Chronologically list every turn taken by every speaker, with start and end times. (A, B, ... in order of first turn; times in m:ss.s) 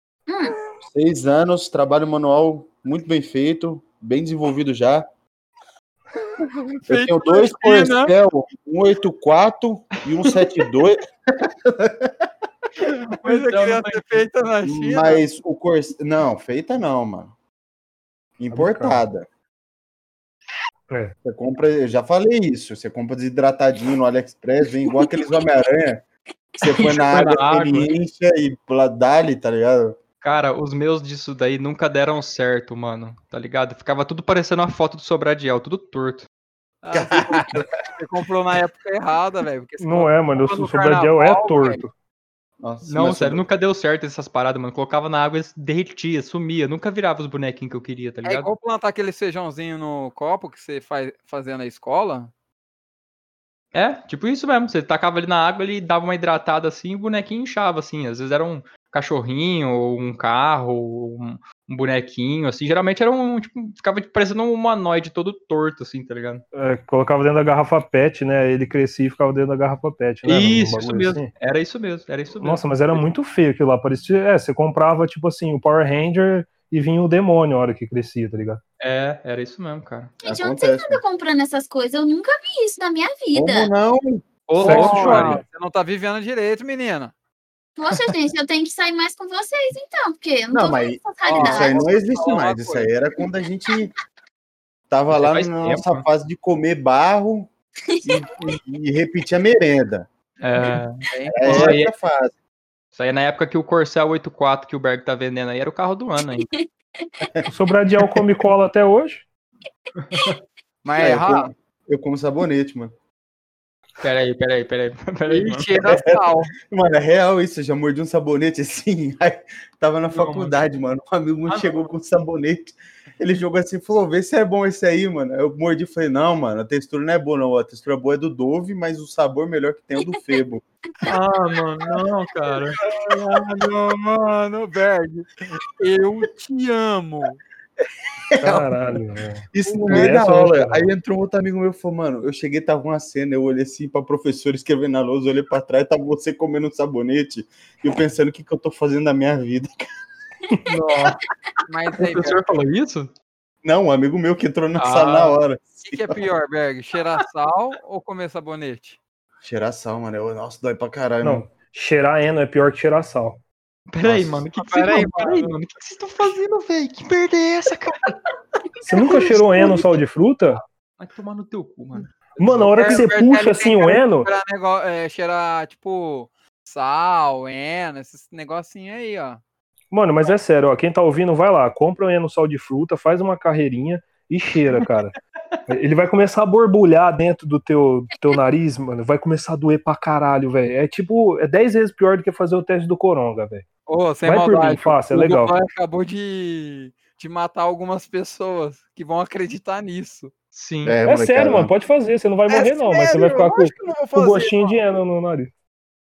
0:00.3-0:00.6 A
0:00.8-0:05.1 B
0:06.4-0:08.1 C
0:06.9-0:12.1 B
0:12.8-0:15.2 C
0:12.9-0:14.2 D
0:14.6-0:17.3 B
0:18.4-0:19.3 B
0:18.5-0:19.1 E
0:20.9-0:21.2 E
0:21.2-0:26.0 B
0:26.6-0:30.0 B
0:27.1-0:27.9 D
0:30.2-0:36.3 D
0:36.8-0:41.8 C
0:36.9-0:37.7 B
0:39.8-0:41.9 E
0:42.6-0:43.4 B
0:42.8-0:48.5 D
0:48.2-0:52.3 C
0:53.7-1:06.4 D
1:06.5-1:11.3 E
1:10.2-1:13.0 D
1:12.4-1:18.6 E
1:18.8-1:20.1 D
1:20.2-1:23.7 A
1:20.2-1:21.0 B
1:23.3-1:25.2 B
1:24.5-1:25.4 D
1:24.6-1:27.1 C
1:24.6-1:25.4 E
1:27.8-1:32.0 A
1:30.5-1:33.9 B
1:31.2-1:32.9 C
1:34.9-1:37.5 B
1:35.1-1:36.0 D
1:37.9-1:38.2 A
1:38.0-1:40.1 B
1:40.4-1:41.9 D
1:41.1-1:41.8 C
1:41.3-1:42.3 B
1:42.9-1:46.5 D
1:46.2-1:47.3 A
1:47.5-1:49.3 E
1:50.8-1:51.5 C
1:51.0-1:52.9 B
1:54.0-1:55.8 D
1:55.3-1:56.5 C
1:55.8-2:10.6 B
2:00.1-2:00.6 D
2:01.5-2:01.9 D
2:11.1-2:12.8 D
2:11.3-2:11.7 C
2:12.7-2:17.4 C
2:18.3-2:18.8 B
2:18.4-2:20.9 E
2:19.5-2:29.8 B
2:19.7-2:20.2 C
2:30.7-2:31.2 D
2:31.7-2:32.4 C
2:32.0-2:33.1 D
2:33.6-2:36.2 B
2:34.8-2:35.4 D
2:35.8-2:39.0 C
2:39.4-2:41.5 B
2:41.2-2:43.4 E
2:43.9-2:48.2 D
2:44.0-2:44.5 B
2:44.5-2:45.5 C
2:48.8-2:50.6 E
2:51.0-2:52.1 D
2:52.4-2:54.3 E
2:52.4-2:59.4 C
2:59.9-3:05.2 E
3:05.7-3:13.7 E
3:13.9-3:20.3 C
3:14.2-3:15.6 E
3:20.5-3:21.0 D
3:20.8-3:21.7 B
3:21.0-3:25.5 E
3:22.5-3:24.8 C